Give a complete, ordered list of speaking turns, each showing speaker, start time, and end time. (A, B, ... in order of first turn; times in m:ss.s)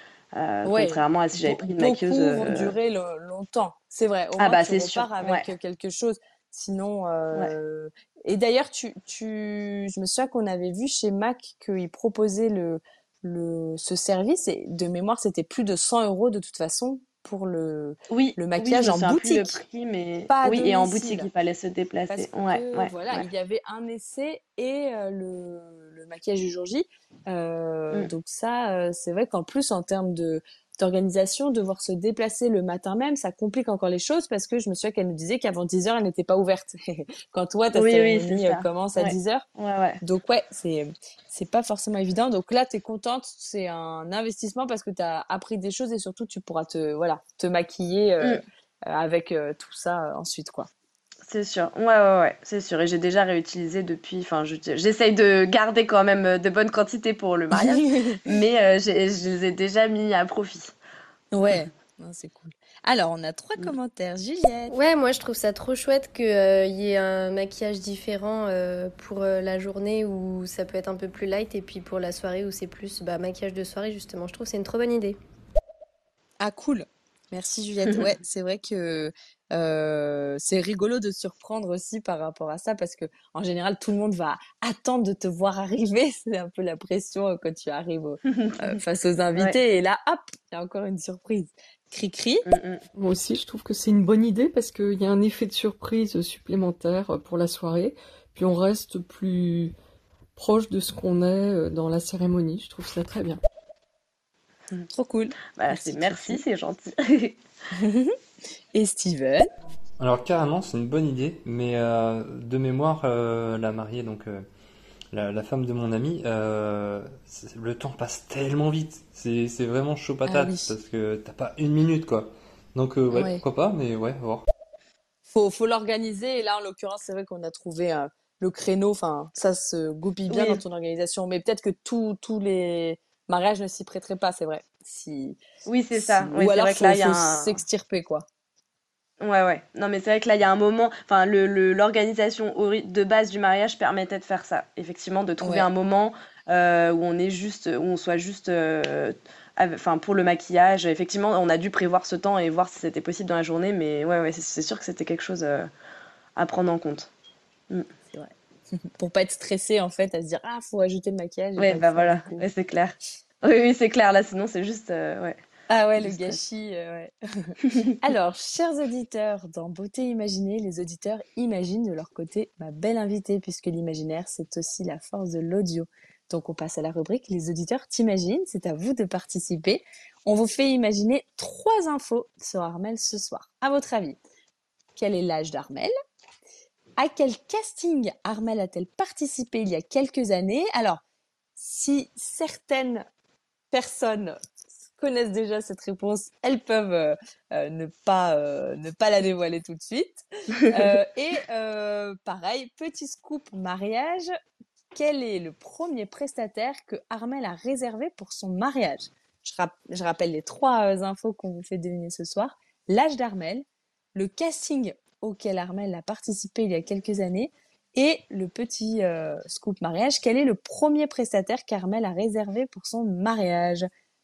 0:00.4-0:02.7 A
0:00.6-0:19.6 B
0:04.4-0:05.4 A
0:18.1-0:23.2 A
0:20.3-0:21.3 B
0:22.1-0:39.4 B
0:37.7-0:40.0 A
0:40.0-0:50.7 B
0:51.3-1:00.7 A
0:57.5-0:58.2 B
1:01.3-1:04.8 B
1:04.7-1:15.2 C
1:16.4-1:32.4 B
1:28.3-1:28.8 A
1:32.5-1:32.8 A
1:33.0-1:39.8 D
1:40.4-1:43.4 D
1:44.9-1:46.4 B
1:45.6-1:47.4 A
1:47.7-1:48.2 B
1:48.7-1:49.5 B
1:50.0-1:54.5 E
1:55.1-2:04.5 E
2:00.2-2:00.7 B
2:03.1-2:03.4 B
2:05.3-2:15.4 B
2:10.3-2:10.6 A
2:15.7-2:17.6 A
2:16.0-2:18.3 B
2:19.2-2:35.7 A
2:25.4-2:25.7 B
2:36.4-2:37.1 A
2:39.0-2:42.5 B
2:41.6-2:45.4 A
2:45.7-3:04.2 B
2:46.0-2:46.4 A
3:05.0-3:05.9 B
3:07.0-3:11.0 B
3:11.6-3:13.0 B
3:13.7-3:14.4 B
3:14.9-3:24.3 B
3:25.0-3:43.9 B